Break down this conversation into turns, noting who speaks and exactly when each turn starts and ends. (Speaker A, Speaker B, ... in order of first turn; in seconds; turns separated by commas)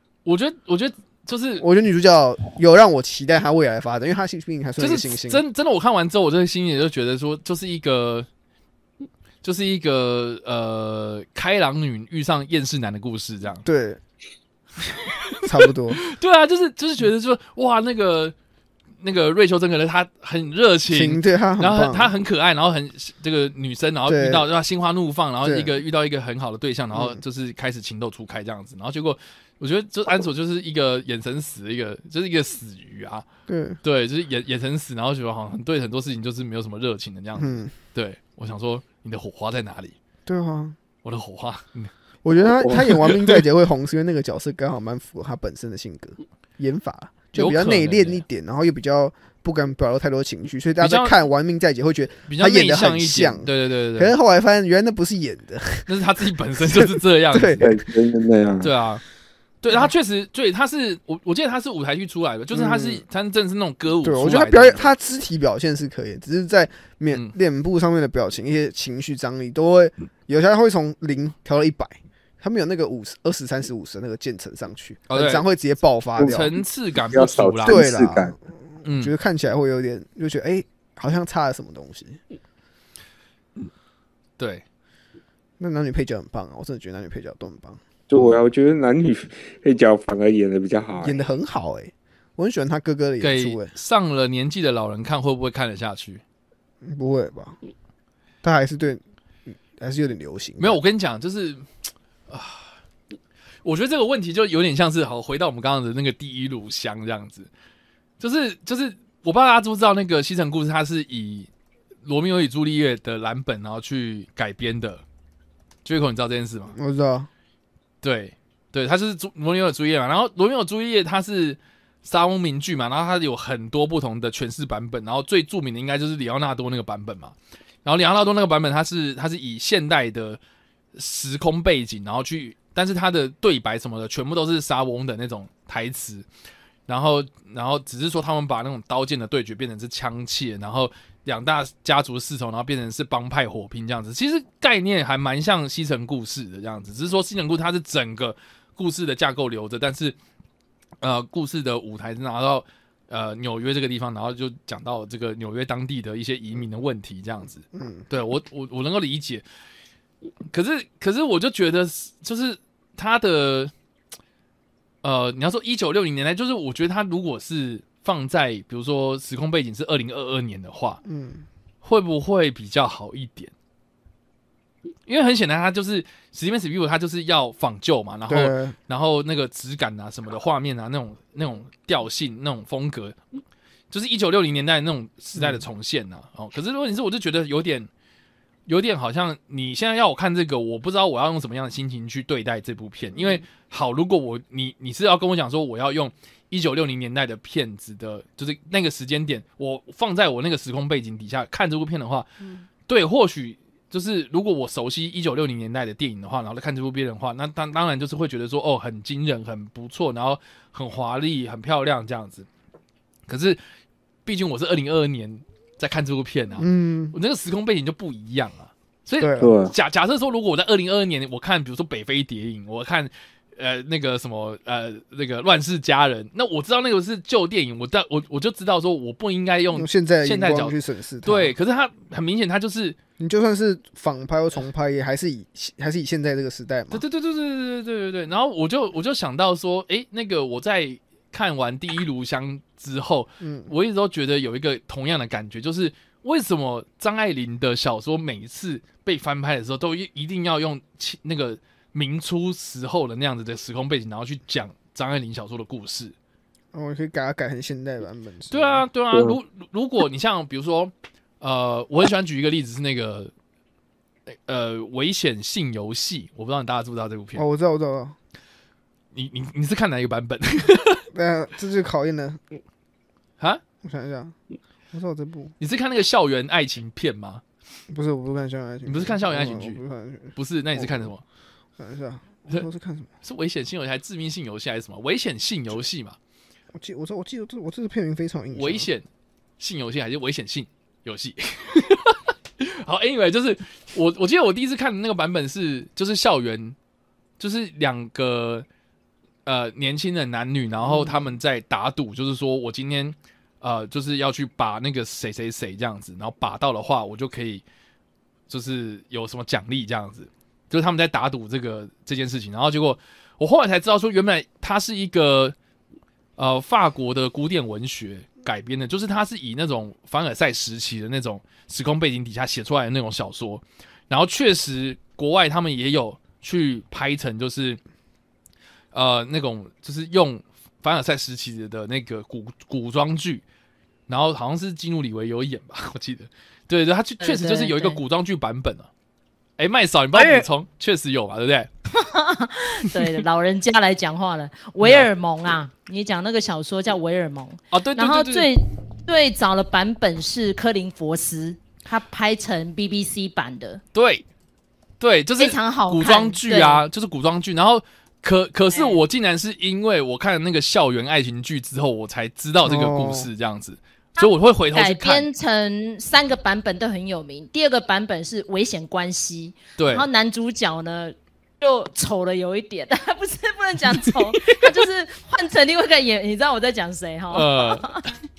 Speaker A: 0.2-1.6, Speaker B: 1.6-5.4, Speaker A: 4.8-8.3, Speaker A: 9.4-13.6, Speaker B: 13.6-14.0, Speaker A: 15.0-18.3, Speaker B: 15.4-16.0, Speaker A: 19.0-33.2, Speaker B: 20.9-22.1, Speaker B: 24.1-24.4, Speaker B: 25.4-25.8, Speaker B: 26.9-27.2, Speaker B: 33.5-33.8, Speaker A: 33.8-40.0, Speaker B: 37.4-37.7, Speaker B: 40.2-40.8, Speaker A: 41.0-41.9, Speaker B: 42.2-55.9, Speaker A: 42.7-43.3, Speaker A: 47.3-48.2, Speaker A: 50.8-51.1, Speaker A: 52.3-54.1, Speaker A: 55.9-57.7, Speaker B: 56.6-57.8, Speaker C: 57.6-58.7, Speaker A: 58.6-59.0, Speaker A: 59.6-64.9, Speaker B: 62.5-63.0, Speaker B: 64.0-76.5, Speaker A: 75.1-75.4, Speaker A: 76.2-77.8, Speaker C: 77.1-78.3, Speaker B: 77.6-82.2, Speaker A: 78.8-79.1, Speaker A: 84.4-84.6, Speaker B: 85.6-87.8, Speaker C: 88.1-91.3, Speaker B: 91.0-93.7, Speaker A: 93.2-96.2, Speaker B: 96.8-97.6, Speaker B: 98.4-100.8, Speaker A: 100.6-101.7, Speaker A: 102.3-102.7, Speaker A: 103.6-107.5, Speaker A: 108.2-111.5, Speaker A: 112.0-115.0, Speaker A: 115.8-116.7, Speaker B: 116.7-117.3, Speaker A: 118.0-130.4, Speaker A: 130.9-136.2, Speaker A: 136.9-150.2, Speaker A: 151.0-159.4, Speaker B: 157.7-158.0, Speaker A: 160.5-163.7, Speaker A: 165.0-171.0, Speaker B: 171.0-171.5, Speaker A: 171.8-173.5, Speaker A: 175.1-183.2, Speaker B: 178.3-178.8, Speaker A: 183.9-187.9, Speaker B: 185.3-185.6, Speaker A: 188.7-202.3, Speaker A: 202.9-212.5, Speaker A: 213.3-213.6, Speaker A: 214.2-233.0, Speaker B: 216.6-217.2, Speaker B: 219.2-219.6, Speaker C: 219.4-219.7, Speaker B: 229.7-231.5, Speaker B: 233.2-237.0, Speaker A: 236.9-256.1, Speaker B: 243.4-243.7, Speaker B: 256.7-258.8, Speaker A: 258.5-263.3, Speaker A: 264.3-267.4, Speaker B: 267.3-268.1, Speaker A: 269.1-271.0, Speaker B: 271.1-272.4, Speaker B: 273.8-274.3, Speaker B: 274.9-275.5, Speaker A: 275.6-277.4, Speaker B: 277.9-281.1, Speaker A: 278.9-279.8, Speaker A: 280.4-281.2, Speaker B: 281.8-283.1, Speaker A: 283.2-286.2, Speaker B: 286.7-288.9, Speaker A: 288.5-289.1, Speaker A: 289.6-296.8, Speaker A: 297.4-298.6, Speaker A: 299.4-307.6, Speaker B: 300.9-301.2, Speaker A: 308.5-315.5, Speaker A: 316.4-327.8, Speaker A: 328.9-333.4, Speaker A: 334.1-338.9, Speaker D: 337.2-338.0, Speaker A: 339.6-341.7, Speaker D: 340.1-340.4, Speaker D: 341.9-353.8, Speaker A: 344.8-345.1, Speaker A: 347.7-348.5, Speaker A: 353.9-354.2, Speaker A: 355.0-365.3, Speaker D: 355.4-356.8, Speaker D: 358.7-359.0, Speaker B: 362.6-363.3, Speaker D: 364.2-378.1, Speaker A: 369.8-370.1, Speaker A: 374.0-374.6, Speaker A: 377.3-378.1